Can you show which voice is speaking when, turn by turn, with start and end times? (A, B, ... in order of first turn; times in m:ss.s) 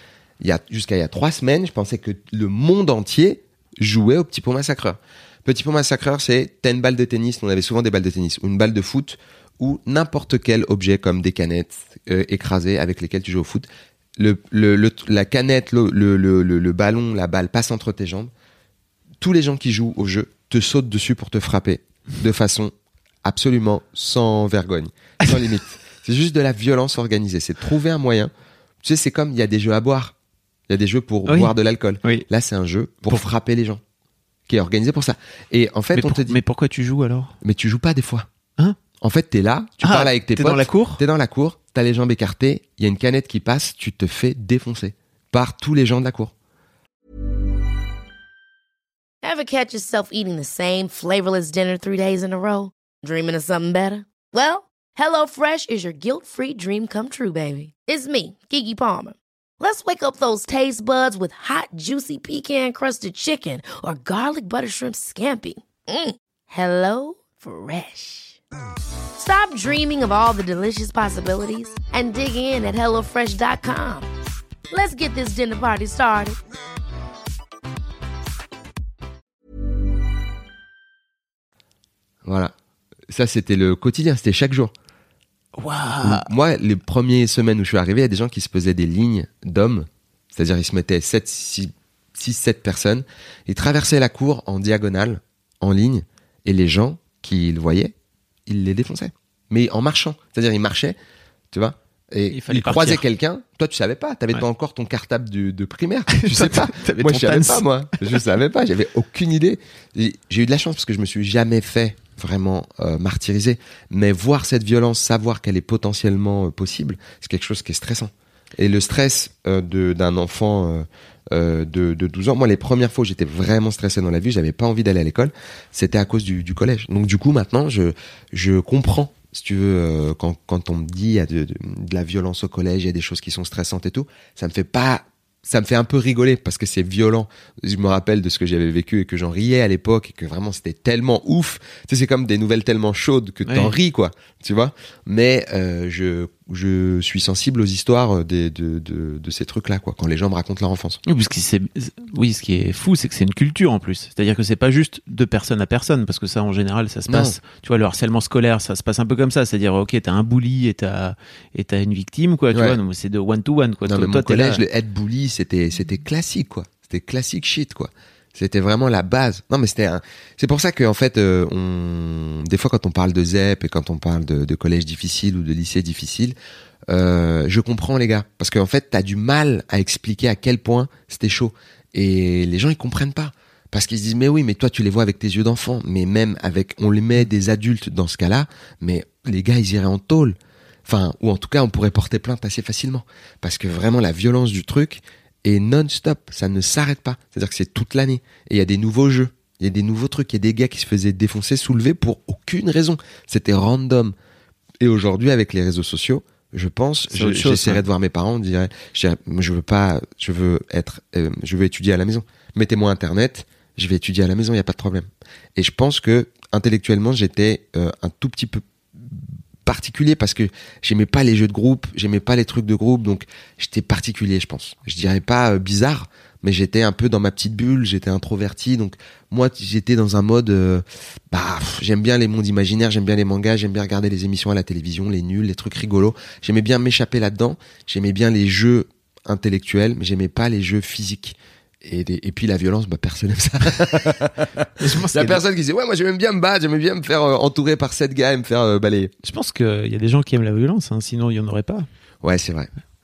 0:00.4-0:13.7 A
0:14.2-0:18.3 A
0:19.2-0:22.7 A
0:23.2-0:28.3 A
0:28.8-0:30.1 A
0:30.7-0:33.8 A
0:31.3-0:32.2 B
0:34.5-0:36.4 A
0:35.9-0:37.3 B
0:37.4-0:38.3 A
0:39.0-0:46.3 A
0:39.8-0:41.0 B
0:49.2-1:08.4 C
1:09.2-1:14.1 C
1:14.7-1:16.4 C
1:22.2-1:22.5 A
1:23.1-1:24.7 A
1:25.6-1:26.3 B
1:26.0-1:37.9 A
1:38.5-1:41.0 A
1:41.5-2:31.0 A
1:42.3-1:43.0 B
1:46.1-1:48.2 B
2:23.4-2:23.8 B
2:31.1-2:44.6 B
2:37.1-2:37.4 A
2:42.5-2:42.8 A
2:43.9-2:56.4 A
2:56.9-3:24.2 A
3:24.8-4:09.1 A
3:27.1-3:27.8 B
4:04.8-4:05.4 B
4:09.2-4:11.9 B
4:12.2-4:12.7 A